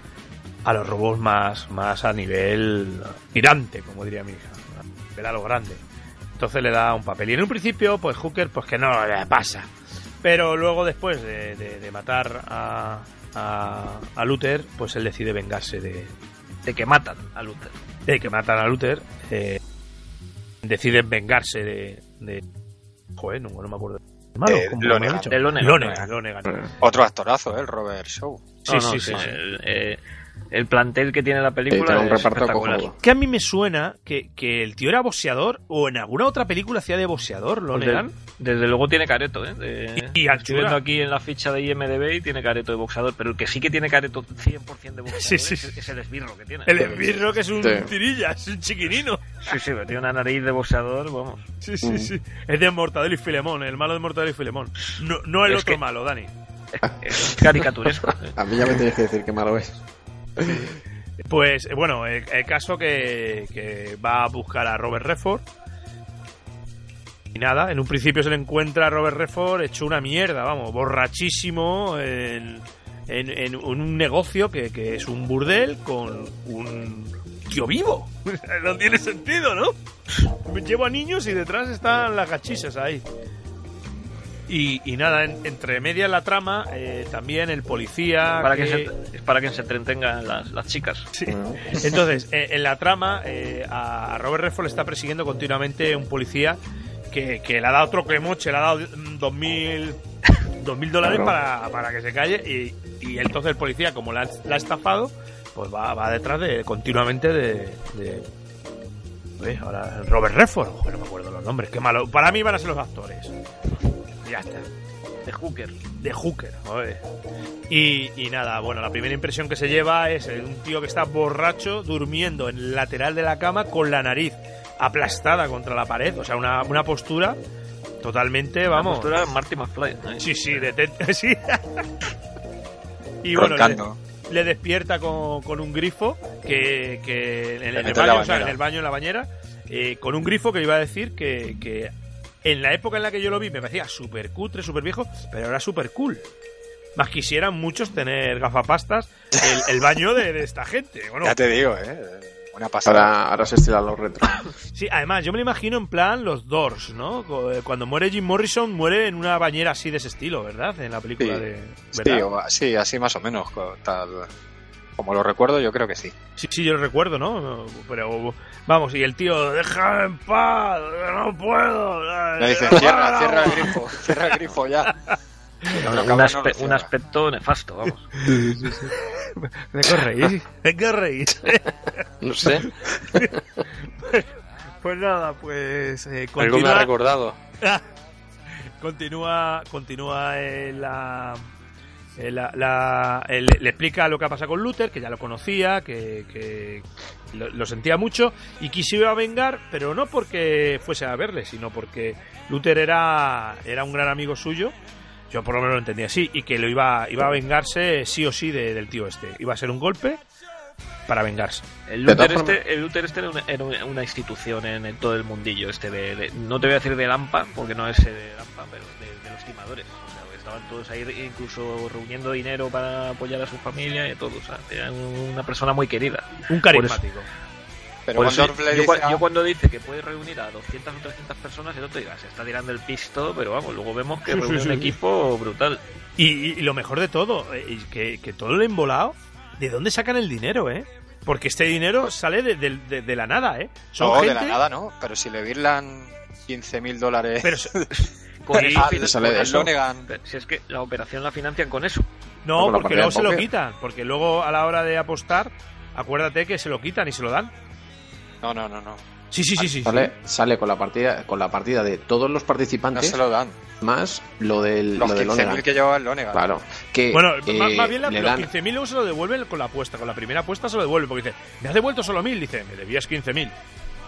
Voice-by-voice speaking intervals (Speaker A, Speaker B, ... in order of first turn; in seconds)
Speaker A: 0.7-5.8, 6.4-9.7, 10.2-16.1, 18.1-19.6, 20.6-22.4, 23.2-26.7, 28.6-29.4, 33.0-38.1, 40.0-40.8, 45.1-45.7, 46.7-49.2, 51.6-56.3, 60.4-65.5, 67.3-79.8, 80.5-83.0, 84.5-88.9, 91.1-96.6, 97.1-100.0, 100.6-108.3, 109.4-113.3, 114.2-114.7, 116.0-117.0, 117.7-127.4, 128.0-129.1, 130.2-131.9, 133.2-141.9, 142.4-146.2, 147.0-151.4, 154.7-162.3, 166.4-174.3, 178.2-183.3, 183.8-184.3, 184.8-186.9, 188.8-191.5, 192.2-204.8, 205.3-210.2, 211.1-211.7, 226.5-227.3, 234.3-234.9, 236.2-244.6, 247.4-247.7, 252.4-257.5, 259.3-260.1, 267.1-273.5
Speaker B: 16.6-17.7, 25.3-26.1, 28.7-30.0, 30.5-32.9, 37.7-47.2, 49.5-51.5, 55.5-55.8, 56.7-58.3, 88.4-91.1, 115.3-115.8, 128.8-130.7, 175.8-178.2, 211.9-227.0, 228.2-235.8, 248.4-252.1
Speaker C: 24.5-26.1, 26.8-28.5, 133.3-134.0, 137.8-138.6, 151.2-153.1, 161.2-164.3, 165.0-166.2, 172.4-175.0, 175.7-176.9, 228.1-229.2, 244.0-247.9, 248.5-250.1, 253.0-253.4, 258.4-259.0, 262.9-263.6, 265.0-266.5
Speaker D: 26.4-26.7, 31.7-33.0, 47.6-47.9, 51.8-52.1, 56.8-59.8, 60.4-60.7, 91.3-91.8, 101.0-101.3, 152.8-154.4, 212.1-212.6, 248.7-249.7, 252.6-253.5, 259.9-263.2, 263.8-265.7, 266.3-268.5
Speaker E: 182.2-183.4, 186.4-187.4